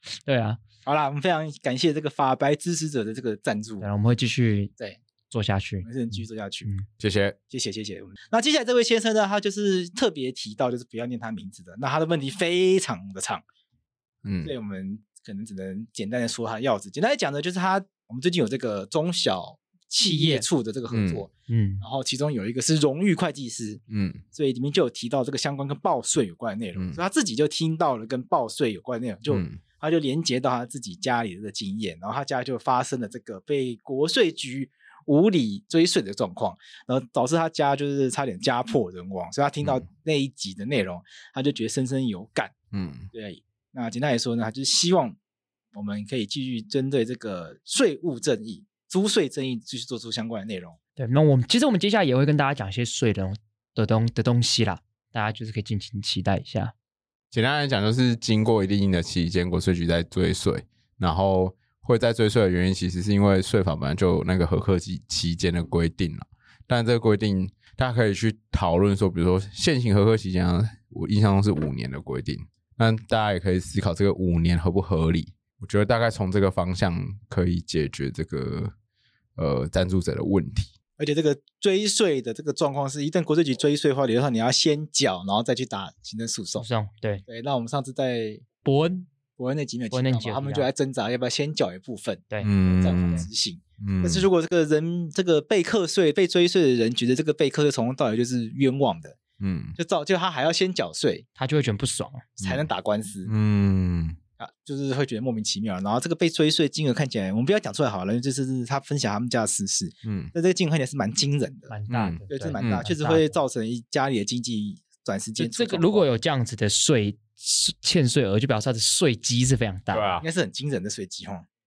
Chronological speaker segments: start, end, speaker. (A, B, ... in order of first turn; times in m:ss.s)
0:00.2-0:00.6 A
0:00.8-0:03.8 B
0:03.8-0:04.7 A
0:05.3-0:05.9 A
0:05.8-0:06.7 B
0:07.0-0:07.4 C
0:07.5-0:13.4 B
0:14.2-0:14.5 C
0:14.4-0:21.3 B
0:20.0-0:20.4 A
0:20.9-0:21.2 C
0:21.5-0:21.8 A
0:21.8-0:23.8 B
0:23.9-0:24.2 C
0:24.3-0:42.5 B
0:29.3-0:29.6 C
0:42.7-0:43.1 C
0:43.1-0:45.2 B
0:45.7-0:50.8 B
0:51.0-0:56.7 A
0:57.3-1:18.7 C
1:19.4-1:20.7 C
1:21.0-1:26.6 B
1:26.6-1:27.2 A
1:27.3-1:28.4 B
1:28.6-1:29.1 A
1:29.4-1:39.2 B
1:29.9-1:30.7 A
1:32.4-1:33.3 C
1:33.8-1:34.2 C
1:39.4-1:39.8 C
1:39.8-1:41.2 B
1:41.4-1:42.2 A
1:42.4-1:43.3 B
1:43.2-1:44.2 C
1:44.4-1:51.7 B
1:50.0-1:50.3 C
1:51.7-1:53.3 A
1:51.9-1:52.8 C
1:52.3-1:56.0 B
1:55.4-2:00.2 A
1:59.9-2:00.2 C
2:00.2-2:01.4 B